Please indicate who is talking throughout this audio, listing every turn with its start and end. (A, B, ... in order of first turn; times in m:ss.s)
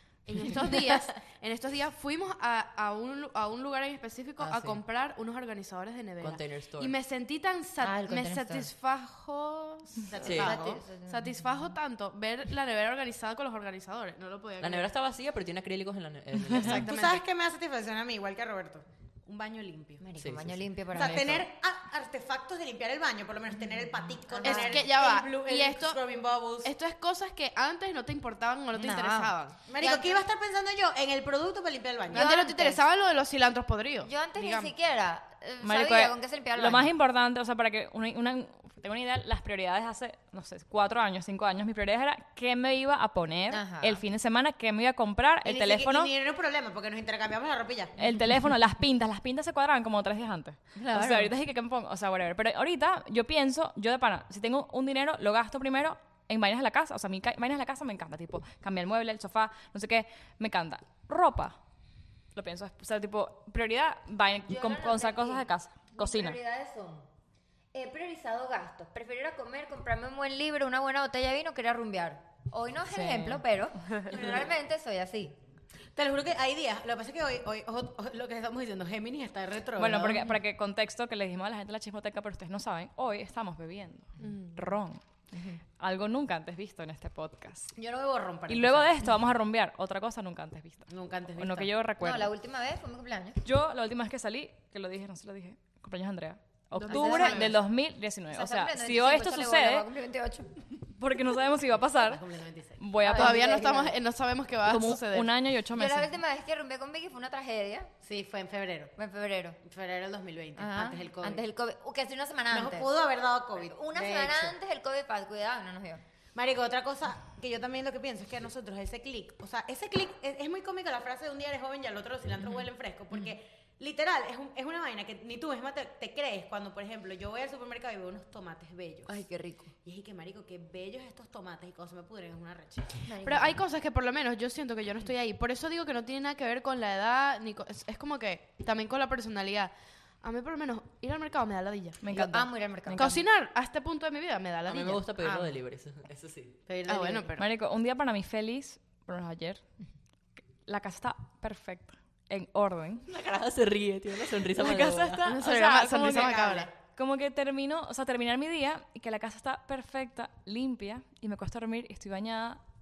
0:00.2-0:14.9 A
0:04.4-0:04.8 B
0:06.2-0:06.9 B
0:07.8-0:08.7 C
0:10.1-0:10.8 D
0:10.2-0:10.6 B
0:10.4-0:11.7 C
0:14.6-0:16.9 B
0:16.5-0:17.2 A
0:16.5-0:20.0 D
0:20.0-0:21.4 C
0:20.2-0:21.4 B
0:20.9-0:26.7 D
0:24.3-0:24.8 C
0:24.4-0:26.0 A
0:26.6-0:30.2 A
0:28.7-0:29.3 C
0:29.7-0:32.3 D
0:32.1-0:32.8 C
0:32.1-0:34.7 A
0:34.0-0:36.9 C
0:35.6-0:46.1 E
0:43.5-0:44.0 C
0:45.4-0:47.9 D
0:48.0-1:01.6 E
0:50.8-0:51.3 C
1:02.3-1:06.4 E
1:04.4-1:07.1 C
1:07.7-1:15.4 C
1:12.9-1:14.1 E
1:14.1-1:14.5 D
1:15.9-1:20.2 D
1:19.8-1:25.0 E
1:24.2-1:24.6 A
1:25.8-1:27.7 E
1:27.8-1:29.0 D
1:28.5-1:32.3 E
1:30.9-1:31.7 D
1:32.0-1:33.4 C
1:33.4-1:39.8 E
1:36.8-1:37.5 A
1:36.9-1:37.6 C
1:38.3-1:40.7 C
1:40.9-1:42.2 E
1:42.0-1:42.8 D
1:42.8-1:43.4 E
1:43.0-1:44.0 C
1:43.1-1:45.3 A
1:44.6-1:46.1 E
1:45.7-1:47.9 C
1:48.0-1:48.9 D
1:49.0-1:49.6 C
1:49.6-1:51.4 D
1:50.6-1:52.9 C
1:52.5-1:54.5 D
1:53.6-1:56.0 C
1:56.3-2:09.2 D
2:09.0-2:09.7 C
2:09.8-2:13.0 D
2:13.0-2:13.6 C
2:13.2-2:22.2 A
2:22.0-2:23.2 E
2:22.1-2:23.2 C
2:23.0-2:25.1 A
2:24.7-2:26.6 B
2:26.7-2:27.3 D
2:26.9-2:27.4 A
2:27.4-2:29.7 E
2:30.6-2:33.1 E
2:33.0-2:35.3 B
2:34.5-2:36.4 E
2:35.2-2:36.7 A
2:36.0-2:36.7 D
2:36.9-2:42.6 E